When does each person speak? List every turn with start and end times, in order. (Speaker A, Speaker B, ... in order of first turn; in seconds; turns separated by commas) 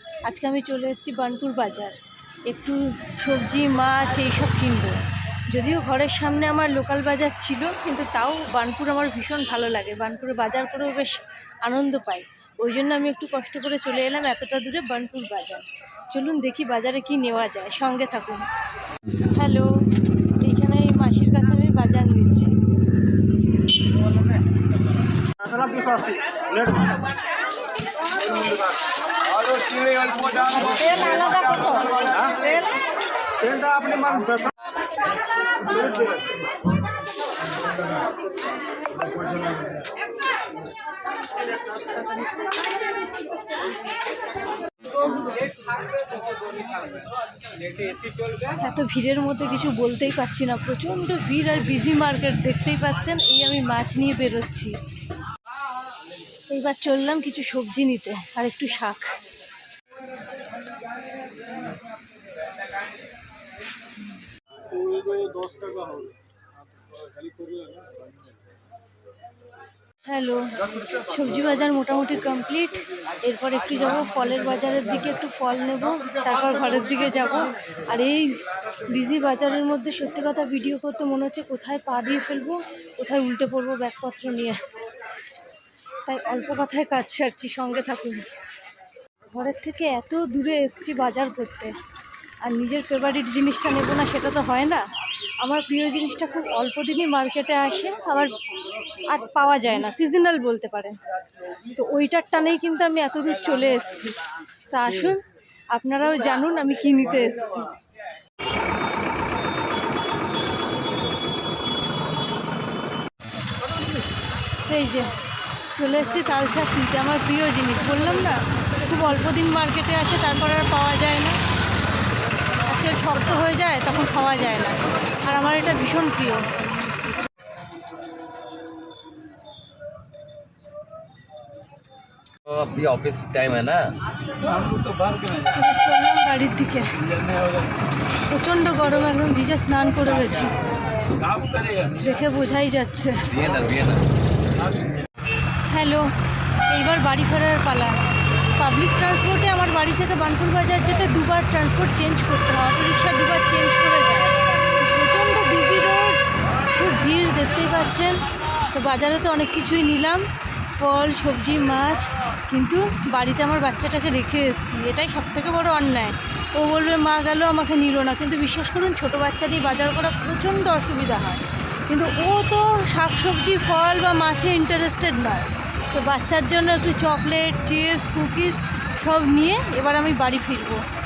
Speaker A: 0.2-18.4, Speaker A: 19.3-19.7, Speaker A: 20.4-22.6, Speaker B: 25.8-26.2, Speaker A: 30.3-32.5, Speaker B: 33.6-34.5, Speaker A: 48.5-54.8, Speaker A: 56.5-59.1, Speaker B: 64.7-66.2, Speaker B: 67.0-68.0, Speaker A: 70.0-84.6, Speaker A: 86.0-88.3, Speaker A: 89.3-91.8, Speaker A: 92.4-94.8, Speaker A: 95.4-98.4, Speaker A: 99.0-101.0, Speaker A: 101.7-107.7, Speaker A: 114.7-115.2, Speaker A: 115.7-121.4, Speaker A: 122.6-126.6, Speaker C: 132.4-133.9, Speaker B: 134.4-135.3, Speaker A: 135.3-137.0, Speaker B: 137.1-137.7, Speaker A: 138.1-140.6, Speaker B: 141.2-141.9, Speaker A: 141.9-143.3, Speaker C: 143.3-144.1, Speaker A: 145.6-146.1, Speaker A: 146.7-180.8